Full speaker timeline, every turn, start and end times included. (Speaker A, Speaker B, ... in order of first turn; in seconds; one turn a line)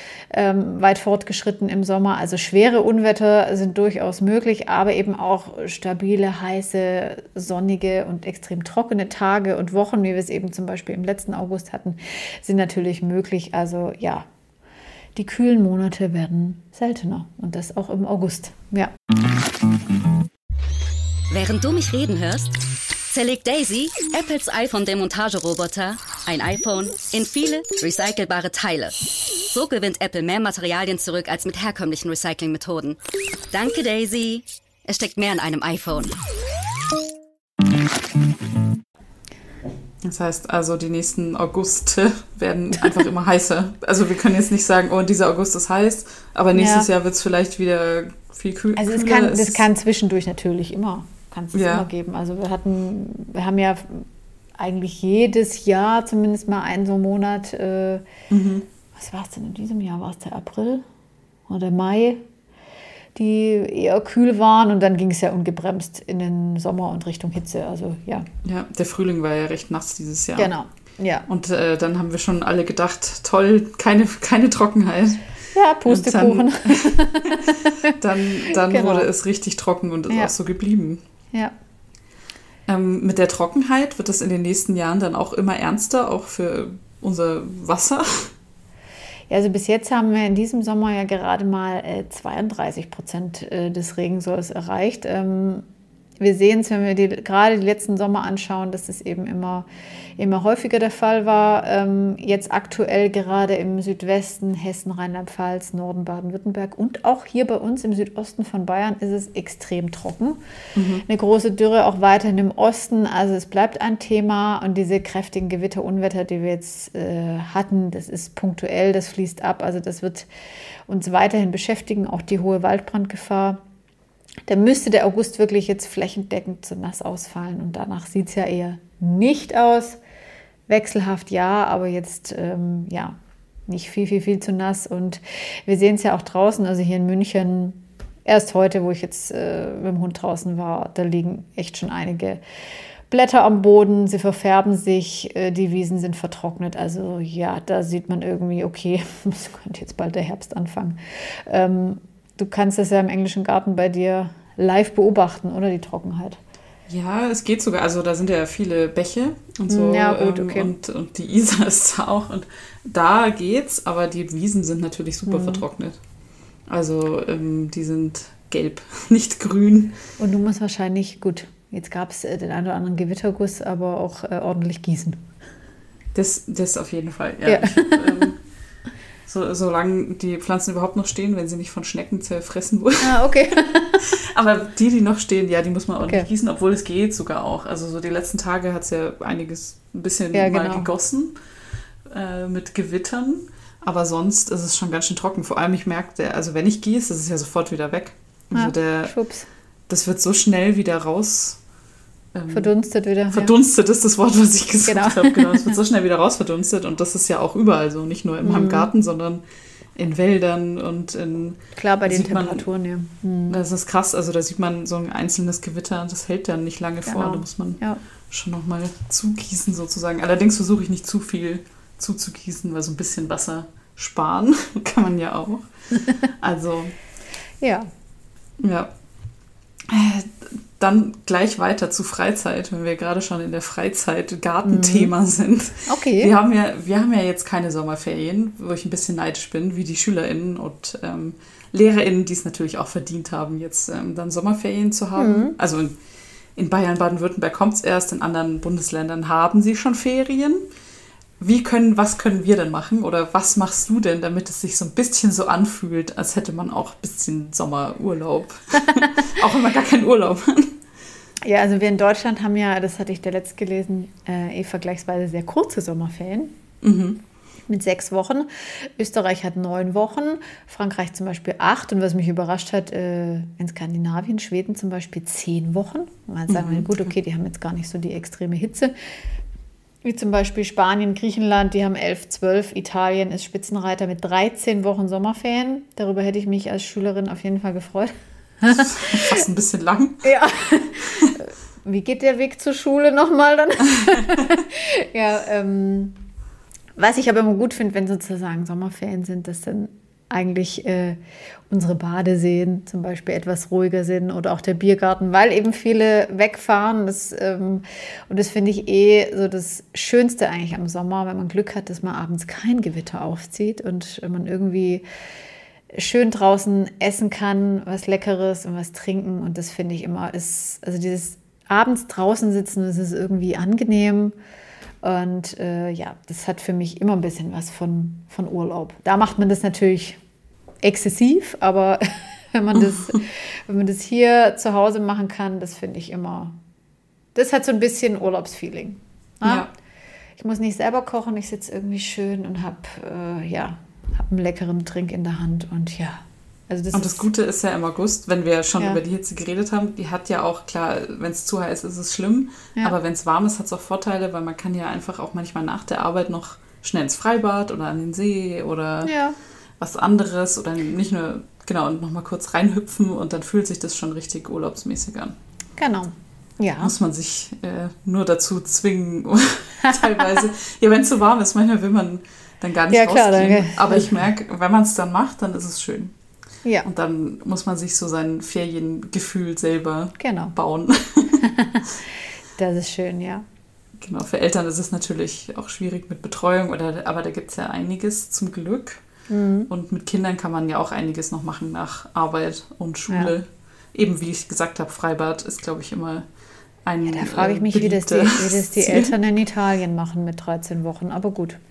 Speaker A: 0.3-14.3
Speaker A: 15.1-18.9
Speaker B: 21.3-22.5
Speaker B: 23.1-33.0
Speaker B: 33.5-36.1
Speaker C: 40.0-49.6
Speaker A: 46.5-46.9
Speaker A: 48.8-54.0
Speaker C: 51.5-51.9
Speaker A: 54.6-58.0
Speaker C: 58.3-58.6
Speaker A: 58.9-60.8
Speaker A: 61.5-62.2
Speaker A: 63.1-68.3
Speaker C: 68.4-70.5
Speaker A: 70.4-71.3
Speaker C: 71.3-75.2
Speaker A: 75.5-77.9
Speaker C: 75.8-81.0
Speaker A: 78.5-79.1
Speaker C: 82.7-88.3
Speaker A: 89.3-95.7
Speaker A: 96.2-99.7
Speaker A: 100.2-110.4
Speaker C: 110.8-111.0
Speaker A: 111.0-120.3
Speaker A: 120.9-123.6
Speaker A: 124.5-130.0
Speaker A: 130.7-142.4
Speaker A: 143.1-156.4
Speaker C: 156.9-166.0
Speaker A: 159.7-160.7
Speaker A: 165.3-165.6
Speaker C: 166.7-170.0
Speaker A: 170.2-175.2
Speaker C: 176.1-178.4
Speaker A: 177.4-178.3
Speaker C: 179.3-183.2
Speaker A: 183.0-184.1
Speaker C: 184.0-191.3
Speaker A: 186.0-186.3
Speaker A: 190.3-190.9
Speaker C: 192.1-199.1
Speaker A: 198.5-199.5
Speaker C: 199.9-201.6
Speaker C: 202.3-202.7
Speaker A: 202.5-203.5
Speaker C: 203.3-209.4
Speaker A: 204.8-205.8
Speaker A: 208.4-208.9
Speaker C: 209.9-212.7
Speaker A: 211.7-213.6
Speaker C: 213.5-225.6
Speaker A: 217.0-218.0
Speaker C: 226.3-226.9
Speaker A: 227.6-227.9
Speaker C: 228.6-228.9
Speaker C: 229.9-245.9
Speaker A: 234.6-235.1
Speaker A: 235.9-236.3
Speaker A: 245.2-245.6
Speaker C: 246.6-250.6
Speaker C: 251.4-260.8
Speaker A: 261.4-266.5
Speaker C: 266.8-267.2
Speaker A: 267.7-278.9
Speaker C: 276.5-277.0
Speaker A: 280.0-289.4
Speaker C: 288.6-290.4
Speaker A: 290.2-296.2
Speaker A: 296.9-315.0
Speaker A: 315.9-324.4
Speaker A: 325.0-330.2
Speaker A: 330.8-336.5
Speaker A: 337.3-339.7
Speaker C: 339.4-339.7
Speaker A: 340.4-347.3
Speaker C: 346.9-359.1
Speaker A: 359.0-359.4
Speaker C: 359.8-365.4
Speaker A: 365.8-366.9
Speaker C: 366.8-376.1
Speaker A: 372.9-374.1
Speaker A: 376.6-376.9
Speaker C: 376.9-381.4
Speaker A: 380.2-380.5
Speaker A: 381.4-381.9
Speaker A: 382.6-383.4
Speaker C: 384.0-389.0
Speaker A: 389.3-389.7
Speaker C: 389.7-396.2
Speaker C: 396.9-399.1
Speaker A: 397.1-401.6